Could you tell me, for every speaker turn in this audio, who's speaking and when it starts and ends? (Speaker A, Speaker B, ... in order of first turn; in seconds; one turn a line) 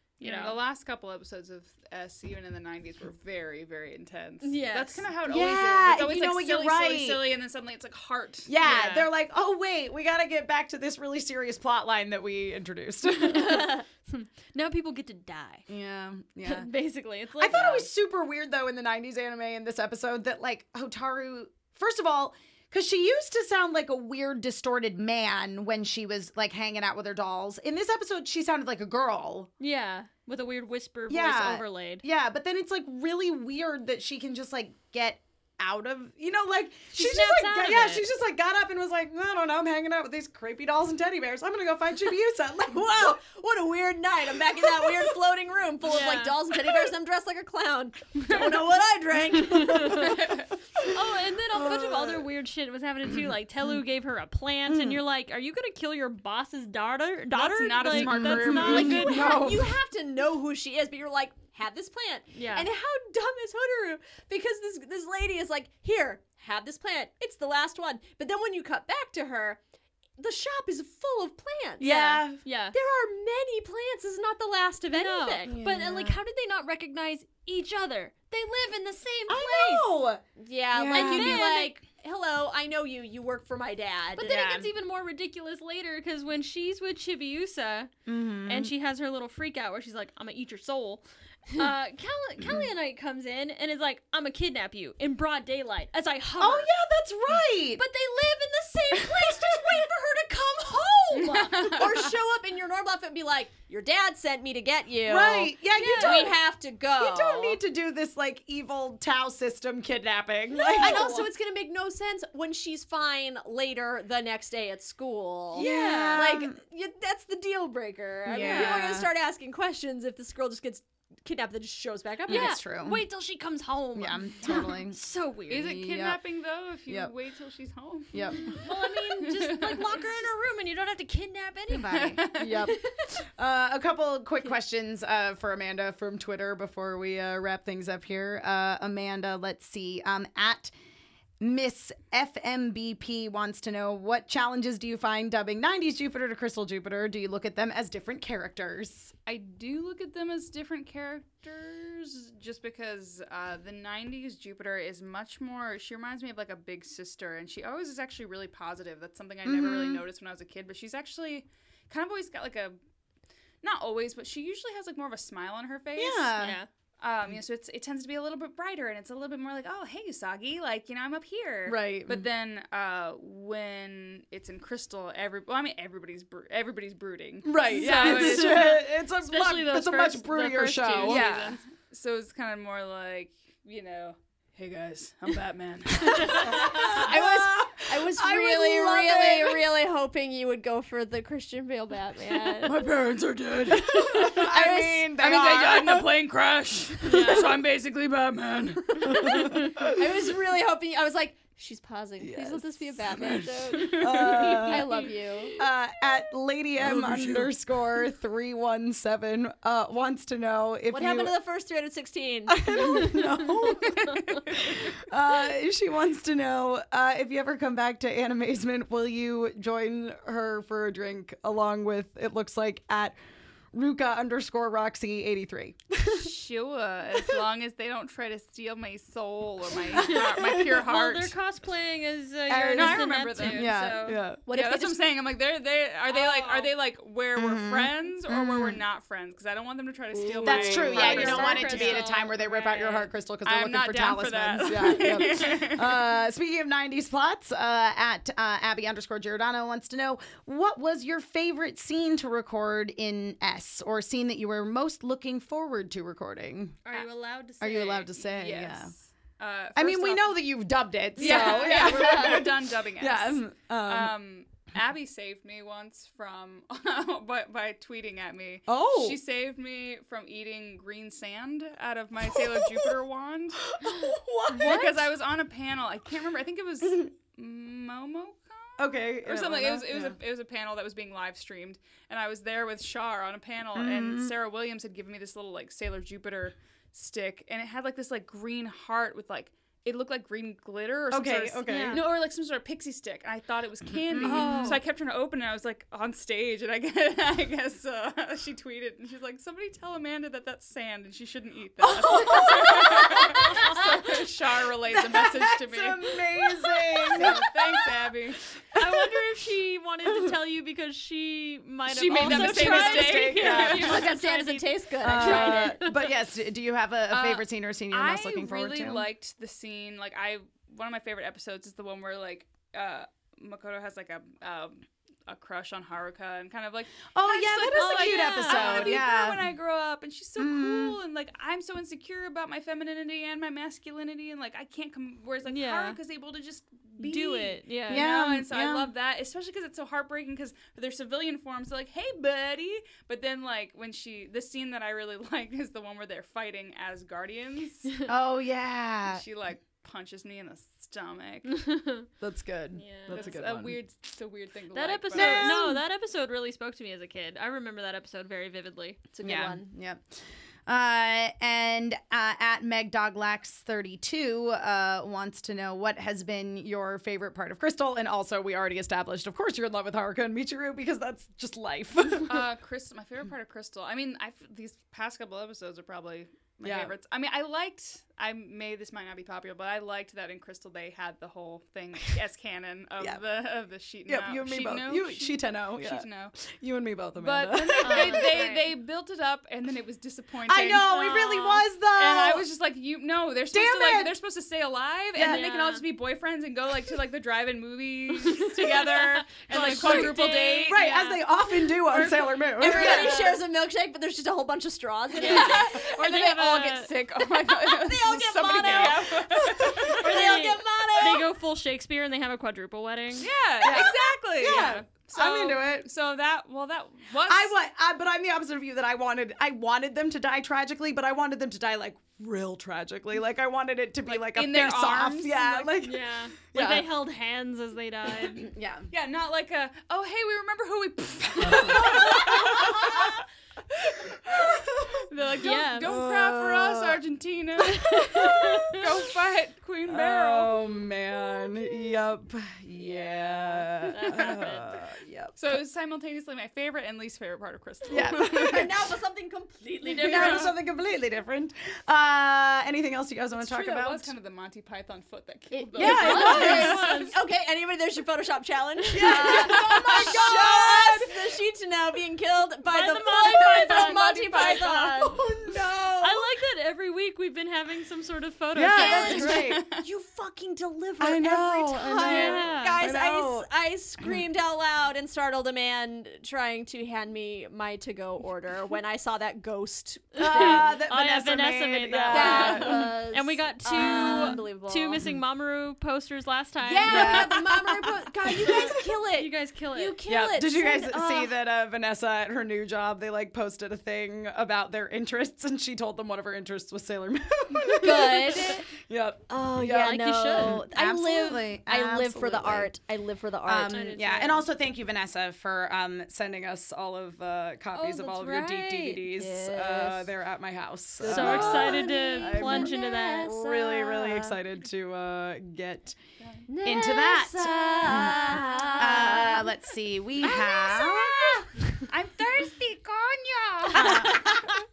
Speaker A: 0.2-0.6
Speaker B: 0.2-8.5
Speaker A: 4.4-5.1
Speaker C: 5.2-7.3
Speaker C: 8.5-13.7
Speaker A: 8.6-9.1
Speaker A: 13.0-15.7
Speaker C: 15.7-16.7
Speaker A: 16.4-17.9
Speaker C: 17.4-29.5
Speaker A: 29.6-32.0
Speaker C: 31.1-43.2
Speaker A: 36.9-38.0
Speaker D: 42.7-50.1
Speaker A: 45.8-46.4
Speaker B: 48.3-48.6
Speaker C: 49.3-49.9
Speaker A: 49.5-50.2
Speaker B: 49.9-50.5
Speaker C: 50.8-52.3
Speaker A: 50.9-59.6
Speaker C: 53.1-53.3
Speaker C: 54.7-55.0
Speaker B: 57.3-59.0
Speaker C: 57.9-59.8
Speaker D: 58.6-69.6
Speaker A: 62.3-62.7
Speaker D: 70.2-71.9
Speaker A: 71.8-72.8
Speaker C: 71.8-72.4
Speaker D: 72.7-75.5
Speaker A: 74.9-79.9
Speaker C: 75.5-76.2
Speaker C: 79.3-80.2
Speaker D: 80.4-84.3
Speaker C: 80.7-81.4
Speaker A: 80.9-81.8
Speaker A: 84.2-87.9
Speaker C: 84.2-84.7
Speaker C: 88.1-88.7
Speaker A: 88.5-96.7
Speaker C: 96.4-97.8
Speaker A: 97.8-101.6
Speaker D: 99.4-99.8
Speaker D: 100.8-107.6
Speaker B: 101.1-102.1
Speaker C: 105.0-106.4
Speaker A: 105.8-106.3
Speaker C: 107.0-111.1
Speaker A: 110.6-111.3
Speaker D: 110.8-122.6
Speaker C: 115.5-116.6
Speaker A: 115.5-116.3
Speaker C: 118.3-119.1
Speaker C: 122.3-123.0
Speaker A: 122.3-125.8
Speaker C: 124.0-125.0
Speaker B: 125.5-130.1
Speaker C: 125.5-126.2
Speaker C: 126.9-127.1
Speaker C: 128.1-128.5
Speaker A: 128.4-132.5
Speaker C: 131.8-140.7
Speaker B: 131.8-132.8
Speaker C: 141.4-149.1
Speaker B: 149.3-162.8
Speaker C: 159.4-160.0
Speaker B: 163.6-166.3
Speaker C: 166.0-166.6
Speaker A: 166.4-166.7
Speaker B: 167.0-178.8
Speaker C: 171.7-172.3
Speaker C: 177.4-181.3
Speaker A: 177.7-181.6
Speaker B: 181.0-186.8
Speaker C: 186.1-189.6
Speaker D: 186.6-192.9
Speaker B: 192.6-194.5
Speaker C: 193.7-196.2
Speaker D: 194.1-195.1
Speaker B: 195.1-199.4
Speaker A: 197.0-197.6
Speaker C: 199.0-200.0
Speaker D: 199.9-205.6
Speaker C: 202.2-204.9
Speaker B: 203.7-204.0
Speaker A: 204.7-205.1
Speaker C: 205.6-211.3
Speaker B: 206.8-207.5
Speaker D: 210.9-213.2
Speaker C: 212.5-223.2
Speaker B: 213.9-214.4
Speaker C: 223.7-226.3
Speaker B: 226.1-231.3
Speaker C: 229.9-230.8
Speaker A: 229.9-234.2
Speaker C: 232.5-234.4
Speaker B: 232.7-233.8
Speaker D: 234.4-235.0
Speaker B: 234.5-242.1
Speaker A: 236.1-236.7
Speaker C: 237.4-238.8
Speaker C: 240.4-256.8
Speaker D: 240.5-242.0
Speaker A: 240.5-243.1
Speaker B: 243.4-246.0
Speaker A: 256.9-258.2
Speaker C: 257.6-258.9
Speaker B: 258.3-260.4
Speaker C: 259.8-264.1
Speaker B: 261.2-273.6
Speaker A: 261.2-262.4
Speaker D: 261.8-262.4
Speaker C: 268.7-269.2
Speaker C: 272.2-273.0
Speaker C: 273.6-275.1
Speaker B: 274.5-306.2
Speaker A: 274.6-274.9
Speaker C: 278.8-280.2
Speaker C: 283.8-284.3
Speaker C: 291.1-292.0
Speaker A: 291.7-292.0
Speaker C: 294.1-294.8
Speaker A: 294.2-294.8
Speaker C: 301.8-303.9
Speaker C: 304.9-307.6
Speaker B: 307.1-308.4
Speaker A: 308.7-315.9
Speaker C: 308.7-309.2
Speaker B: 311.9-314.1
Speaker C: 312.1-314.0
Speaker D: 313.7-315.9
Speaker C: 315.0-319.1
Speaker B: 317.1-348.1
Speaker C: 327.1-329.4
Speaker A: 327.7-329.0
Speaker C: 330.4-331.0
Speaker A: 335.4-336.0
Speaker A: 337.0-338.1
Speaker C: 337.9-338.9
Speaker C: 348.1-349.2
Speaker B: 349.1-351.5
Speaker A: 351.5-352.1
Speaker C: 352.2-353.8
Speaker A: 352.7-353.3
Speaker B: 353.1-355.6
Speaker A: 354.7-359.1
Speaker C: 355.1-355.8
Speaker D: 359.1-359.7
Speaker C: 359.2-360.0
Speaker C: 360.7-372.5
Speaker B: 372.3-386.3
Speaker C: 376.6-376.9
Speaker C: 384.1-388.3
Speaker B: 387.2-390.9
Speaker A: 387.8-388.7
Speaker C: 390.5-392.5
Speaker A: 390.9-391.6
Speaker B: 392.0-400.9
Speaker C: 393.5-394.1
Speaker C: 395.1-395.4
Speaker A: 395.2-395.9
Speaker A: 398.2-401.2
Speaker C: 399.5-403.1
Speaker A: 401.9-403.4
Speaker D: 402.6-405.9
Speaker B: 405.2-410.2
Speaker A: 405.2-406.9
Speaker D: 407.6-411.3
Speaker A: 408.0-409.1
Speaker A: 409.8-413.3
Speaker B: 413.2-417.5
Speaker C: 413.6-415.9
Speaker C: 417.3-426.9
Speaker B: 424.1-425.7
Speaker A: 425.8-428.5
Speaker C: 428.3-428.9
Speaker B: 428.9-433.2
Speaker C: 431.4-433.1
Speaker C: 434.0-435.1
Speaker B: 434.3-440.5
Speaker A: 435.4-436.0
Speaker C: 435.8-437.0
Speaker C: 437.7-438.8
Speaker A: 437.8-438.8
Speaker C: 439.9-445.6
Speaker D: 442.9-443.6
Speaker A: 443.9-444.8
Speaker B: 445.4-448.7
Speaker C: 447.9-448.8
Speaker D: 448.0-450.5
Speaker A: 449.9-450.5
Speaker B: 449.9-450.5
Speaker C: 450.0-454.1
Speaker B: 453.4-457.0
Speaker D: 455.5-466.4
Speaker C: 455.8-456.8
Speaker A: 455.8-457.1
Speaker C: 458.9-461.2
Speaker B: 459.0-460.6
Speaker A: 462.6-465.0
Speaker B: 463.2-465.1
Speaker C: 465.1-465.6
Speaker A: 466.0-469.5
Speaker C: 468.6-469.6
Speaker D: 468.7-480.7
Speaker B: 469.2-469.8
Speaker C: 471.0-473.5
Speaker A: 472.0-472.8
Speaker C: 480.2-482.9
Speaker A: 480.2-487.3
Speaker D: 482.1-485.0
Speaker C: 483.7-484.4
Speaker D: 486.6-491.4
Speaker C: 486.9-487.8
Speaker A: 488.4-490.0
Speaker C: 488.5-488.7
Speaker C: 490.1-502.7
Speaker D: 497.7-498.6
Speaker A: 498.3-498.6
Speaker D: 499.3-503.9
Speaker A: 499.7-500.6
Speaker C: 503.5-516.0
Speaker A: 503.7-504.5
Speaker A: 507.8-508.9
Speaker D: 507.8-510.1
Speaker D: 511.0-514.4
Speaker A: 511.0-513.3
Speaker B: 516.2-516.5
Speaker D: 516.5-519.5
Speaker C: 516.6-521.5
Speaker B: 520.2-524.3
Speaker C: 523.7-524.4